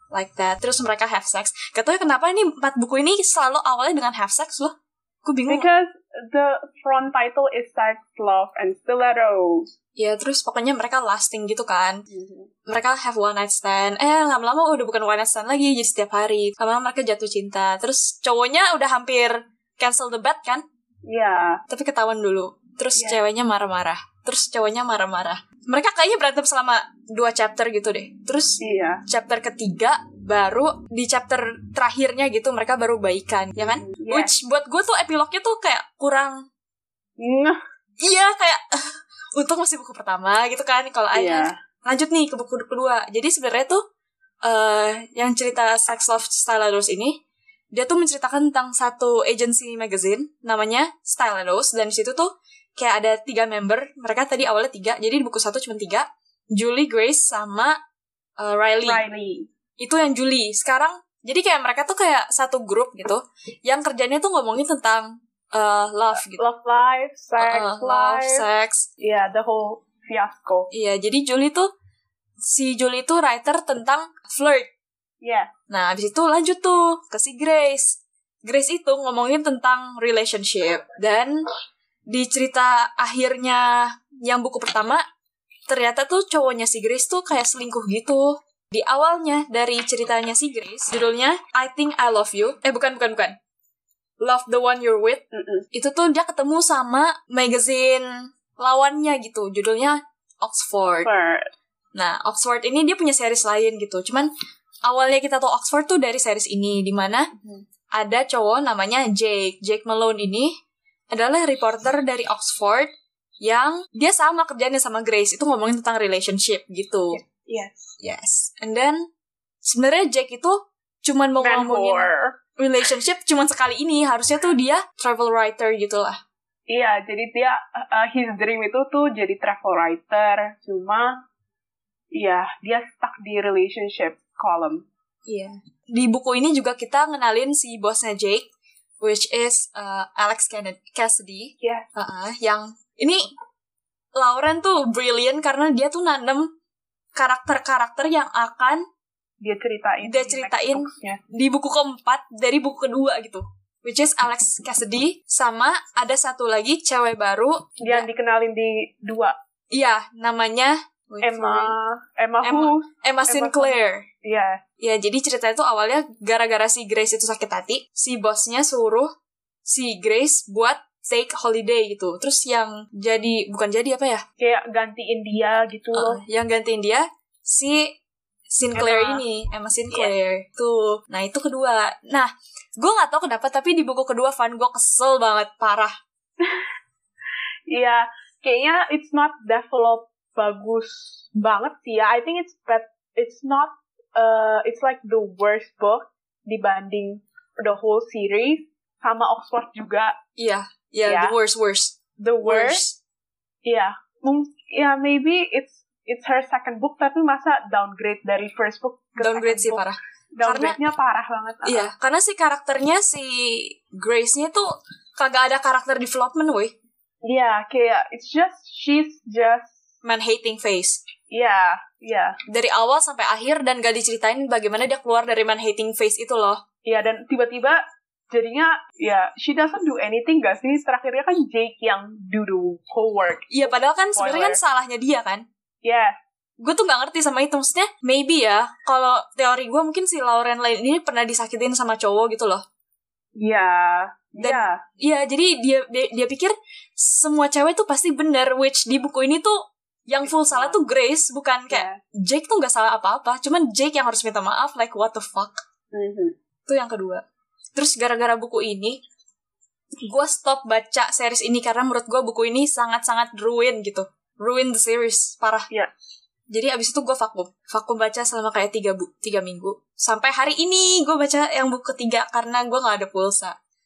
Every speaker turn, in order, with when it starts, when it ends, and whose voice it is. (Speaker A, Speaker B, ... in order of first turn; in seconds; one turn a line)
Speaker A: 0.1-5.7
Speaker B: 5.5-9.7
Speaker A: 10.0-12.1
Speaker B: 12.1-12.5
Speaker A: 12.7-20.6
Speaker B: 21.1-21.6
Speaker A: 21.7-36.4
Speaker B: 28.6-29.0
Speaker B: 33.6-34.3
Speaker B: 37.2-37.6
Speaker A: 38.0-43.8
Speaker B: 41.1-41.6
Speaker A: 44.4-47.2
Speaker A: 47.7-57.8
Speaker A: 58.4-59.0
Speaker B: 58.8-59.5
Speaker A: 59.8-66.4
Speaker B: 66.2-68.4
Speaker A: 67.4-68.9
Speaker B: 69.0-70.7
Speaker A: 70.7-71.7
Speaker A: 72.5-74.7
Speaker B: 75.2-75.5
Speaker A: 75.7-81.4
Speaker A: 82.1-85.0
Speaker A: 85.7-93.4
Speaker A: 94.2-95.2
Speaker B: 95.3-95.7
Speaker A: 95.7-101.1
Speaker B: 101.0-101.5
Speaker A: 101.9-104.3
Speaker A: 104.8-107.3
Speaker B: 107.4-107.7
Speaker A: 107.9-110.5
Speaker A: 111.1-112.9
Speaker A: 113.4-117.2
Speaker B: 117.1-117.7
Speaker A: 118.0-119.0
Speaker A: 119.6-126.2
Speaker B: 121.4-122.4
Speaker B: 126.7-131.1
Speaker B: 132.1-134.8
Speaker A: 135.3-138.5
Speaker A: 139.0-143.3
Speaker B: 141.6-141.9
Speaker A: 144.2-146.5
Speaker A: 147.2-148.8
Speaker B: 149.4-151.2
Speaker A: 150.0-158.1
Speaker B: 157.8-159.3
Speaker A: 159.7-161.8
Speaker B: 161.2-164.6
Speaker A: 162.4-164.1
Speaker A: 164.8-169.1
Speaker A: 169.7-174.2
Speaker B: 174.4-176.2
Speaker A: 175.9-177.9
Speaker A: 178.5-185.9
Speaker B: 178.7-179.2
Speaker B: 186.4-186.7
Speaker B: 187.7-200.2
Speaker A: 200.4-203.0
Speaker B: 201.1-201.3
Speaker B: 202.2-202.8
Speaker B: 203.7-211.9
Speaker A: 209.2-210.8
Speaker A: 211.7-216.7
Speaker B: 217.2-219.8
Speaker A: 220.0-221.0
Speaker B: 221.3-222.3
Speaker A: 222.5-226.6
Speaker B: 226.8-234.6
Speaker A: 233.5-235.4
Speaker B: 235.8-236.2
Speaker A: 236.6-242.6
Speaker B: 243.4-244.8
Speaker A: 244.4-255.6
Speaker B: 250.2-250.8
Speaker B: 251.7-252.0
Speaker B: 255.9-256.3
Speaker A: 256.7-257.2
Speaker A: 257.7-259.0
Speaker A: 260.0-265.7
Speaker A: 266.5-273.6